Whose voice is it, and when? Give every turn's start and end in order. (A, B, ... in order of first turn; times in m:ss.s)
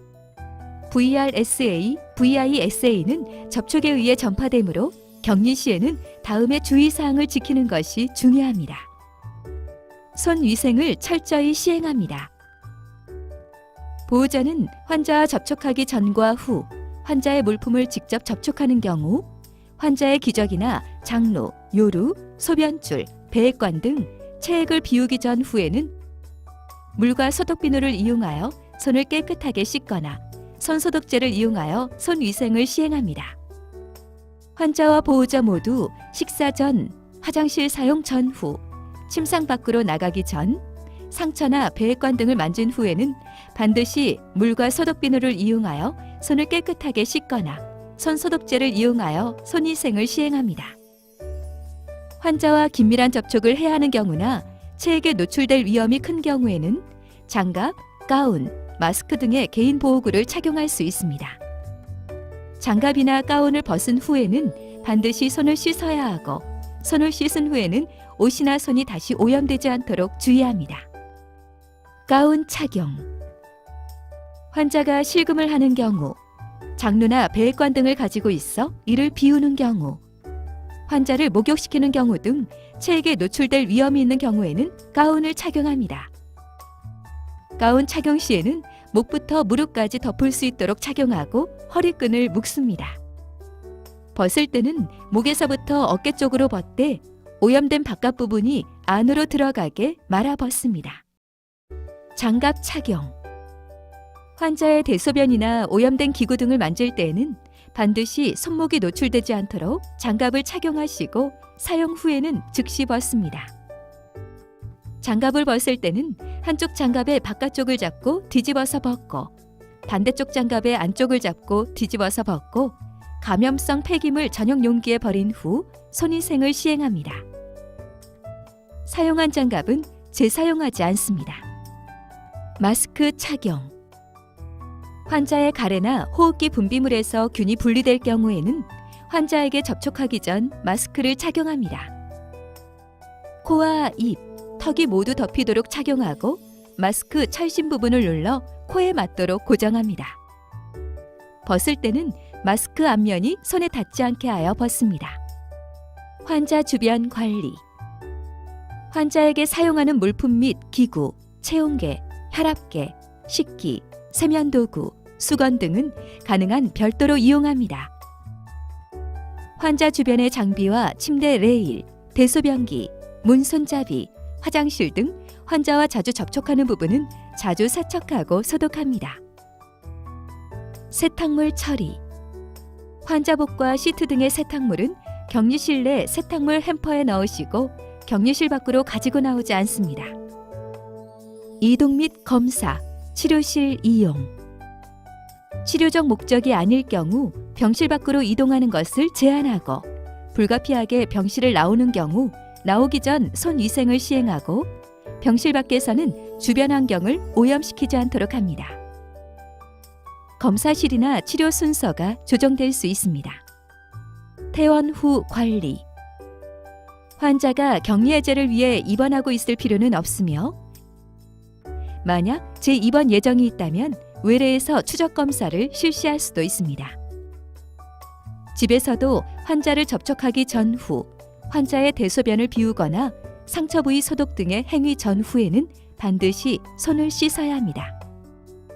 0:00.9-0:08.9 A
0:10.1-0:12.3 A
0:14.1-0:19.3 A
0:19.8-0:25.9 A
0:27.0-0:33.4 A
0:34.6-0:50.8 A
0:52.2-1:01.4 A
1:02.6-1:10.8 A
1:12.1-1:13.1 A
1:14.5-1:16.2 A
1:16.8-1:20.0 A
1:20.9-1:26.1 A
1:27.6-1:33.0 A
1:34.1-1:41.0 A
1:42.2-1:43.1 A
1:44.4-1:53.5 A
1:55.0-1:59.3 A
1:59.8-2:07.2 A
2:08.8-2:11.4 A
2:12.6-2:13.7 A
2:15.1-2:21.9 A
2:23.4-2:30.2 A
2:31.4-2:35.2 A
2:36.2-2:37.6 A
2:38.9-2:47.9 A
2:49.6-2:59.2 A
3:00.9-3:02.0 A
3:03.0-3:10.1 A
3:11.6-3:14.3 A
3:15.6-3:28.8 A
3:30.4-3:33.4 A
3:34.5-3:35.8 A
3:37.2-3:40.6 A
3:42.0-3:46.9 A
3:48.5-3:57.9 A